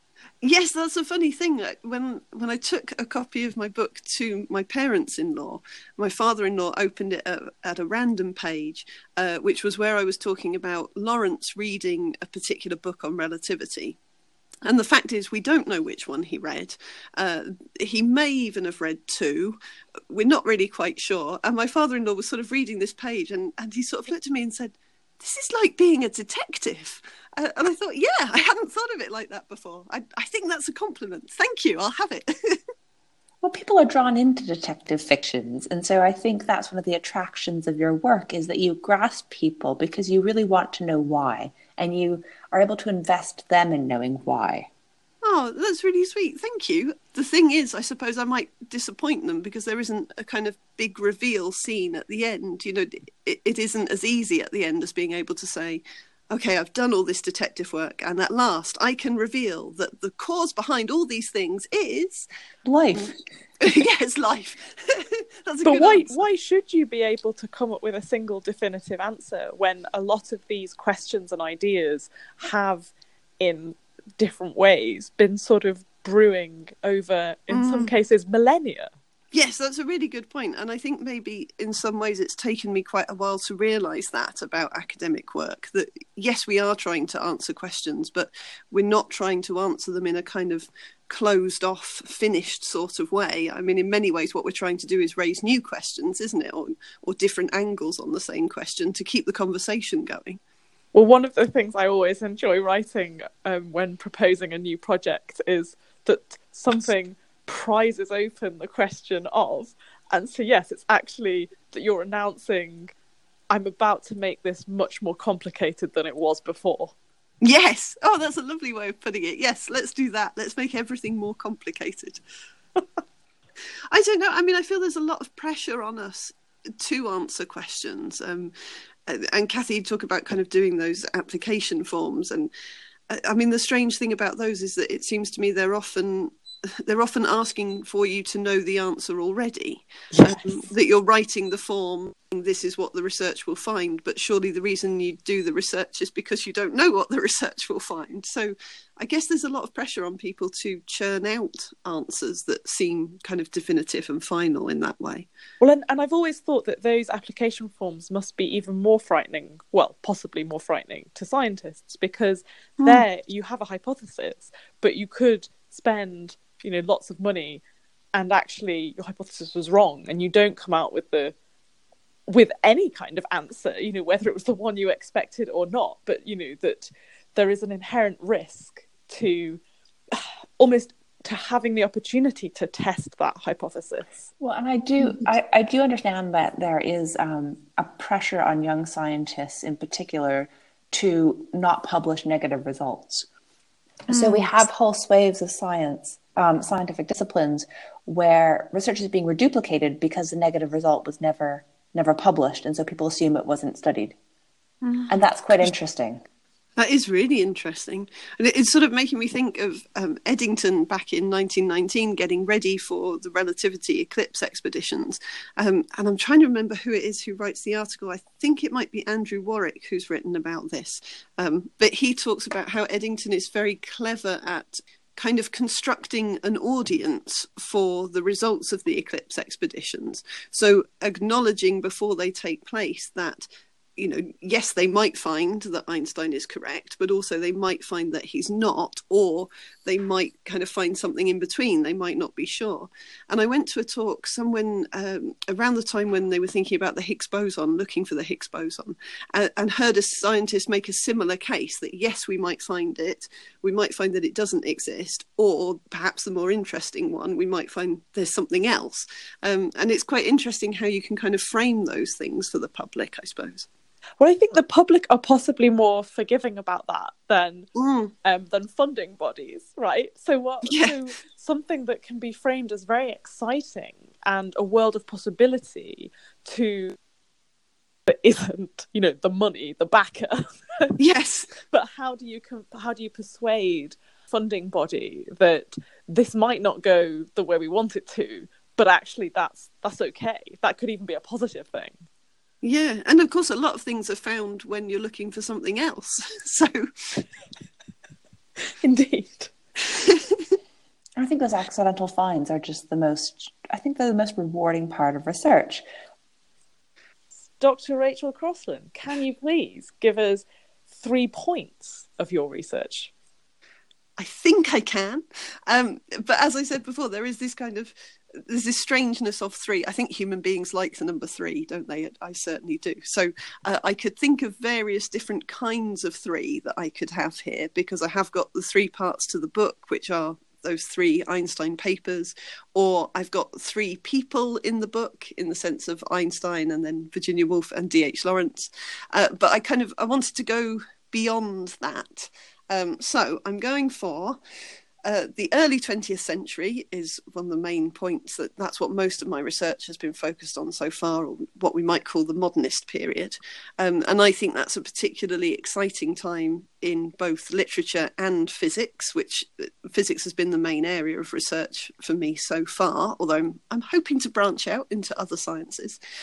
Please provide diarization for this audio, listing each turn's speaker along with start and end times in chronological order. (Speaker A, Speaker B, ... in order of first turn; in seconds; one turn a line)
Speaker A: 0.4-14.0
Speaker A: 14.6-19.6
Speaker A: 20.1-32.5
Speaker B: 33.4-44.7
Speaker A: 45.2-62.3
Speaker B: 62.6-63.2
Speaker A: 62.9-66.2
Speaker C: 65.6-78.9
Speaker A: 77.5-77.9
Speaker A: 79.3-100.4
Speaker C: 100.9-112.9
Speaker C: 113.5-116.9
Speaker A: 117.4-122.2
Speaker A: 123.9-128.5
Speaker A: 129.1-132.5
Speaker A: 133.1-136.3
Speaker A: 136.9-155.3
Speaker C: 155.6-167.6
Speaker C: 168.1-171.3
Speaker C: 172.3-184.3
Speaker B: 184.4-193.3
Speaker A: 194.1-194.5
Speaker B: 194.1-204.2
Speaker A: 204.8-205.7
Speaker B: 205.1-206.2
Speaker A: 206.8-263.7
Speaker C: 264.2-267.7
Speaker A: 267.8-268.1
Speaker C: 268.2-276.9
Speaker A: 270.6-271.0
Speaker C: 278.1-280.9
Speaker A: 281.0-281.6
Speaker C: 281.7-292.0
Speaker A: 292.6-297.2
Speaker C: 298.8-299.5
Speaker B: 301.2-305.8
Speaker C: 307.6-310.4
Speaker C: 311.0-313.1
Speaker A: 314.2-317.9
Speaker A: 318.5-344.4
Speaker A: 345.0-366.0